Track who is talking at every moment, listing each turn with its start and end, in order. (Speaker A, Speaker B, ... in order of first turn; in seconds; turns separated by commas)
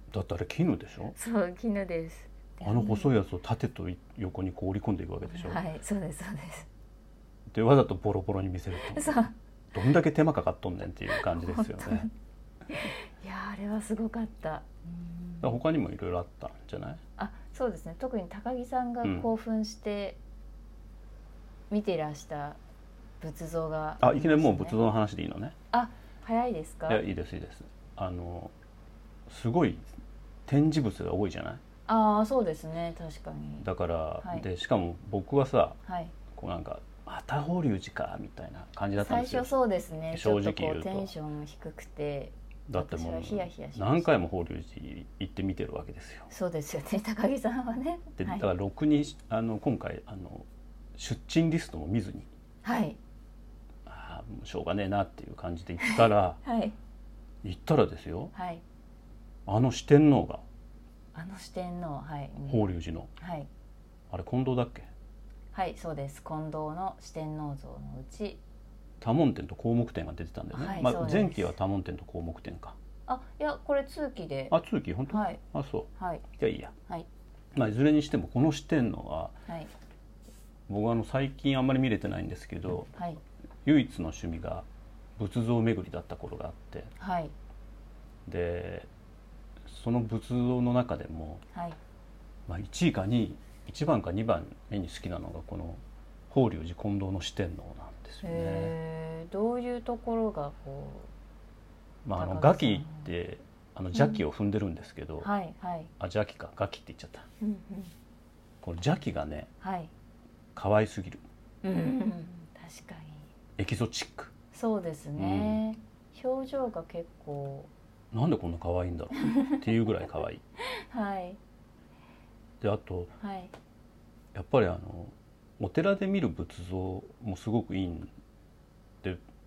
Speaker A: 0.1-1.1, Speaker B: 1.1-3.2, Speaker A: 2.6-5.6, Speaker B: 5.3-6.7, Speaker A: 7.5-12.1, Speaker B: 8.8-9.3, Speaker B: 11.1-12.1, Speaker B: 12.7-15.6, Speaker A: 15.4-17.0, Speaker B: 17.2-20.2, Speaker A: 19.0-19.3, Speaker B: 21.7-22.6, Speaker B: 23.2-24.8, Speaker A: 24.0-25.5, Speaker B: 25.7-27.0, Speaker A: 26.9-28.5, Speaker A: 29.3-29.9, Speaker A: 30.4-31.6, Speaker B: 31.9-33.7, Speaker A: 33.6-35.8, Speaker B: 35.9-36.1, Speaker A: 36.3-39.5, Speaker B: 39.0-44.1, Speaker A: 40.1-41.1, Speaker A: 42.7-46.3, Speaker B: 46.3-48.5, Speaker A: 48.2-52.3, Speaker B: 52.6-53.0, Speaker A: 53.9-56.4, Speaker B: 55.8-56.7, Speaker A: 57.4-58.3, Speaker B: 58.3-58.6, Speaker A: 59.5-60.4, Speaker B: 61.1-63.5, Speaker A: 62.5-63.1, Speaker A: 64.1-64.9, Speaker B: 65.5-68.4, Speaker A: 69.0-72.8, Speaker B: 70.5-71.5, Speaker B: 73.1-74.5, Speaker A: 74.5-76.7, Speaker B: 75.1-75.4, Speaker B: 76.0-76.2, Speaker A: 77.5-79.3, Speaker A: 80.7-82.9, Speaker B: 83.0-83.2, Speaker A: 83.6-84.7, Speaker A: 85.2-86.9, Speaker B: 87.0-87.3, Speaker A: 88.2-88.9, Speaker A: 89.7-91.4, Speaker A: 92.5-98.7, Speaker B: 98.2-101.1, Speaker A: 102.0-105.3, Speaker B: 102.2-103.1, Speaker B: 103.9-104.2, Speaker B: 105.2-105.9, Speaker A: 106.0-107.2, Speaker B: 107.4-107.9, Speaker A: 108.6-109.5, Speaker B: 109.6-109.9, Speaker A: 110.5-111.2, Speaker B: 111.6-113.3, Speaker A: 113.6-114.3, Speaker B: 114.5-117.7, Speaker A: 115.2-115.6, Speaker A: 118.1-120.4, Speaker B: 120.7-121.4, Speaker A: 122.6-123.1, Speaker B: 123.2-123.5, Speaker A: 124.3-128.1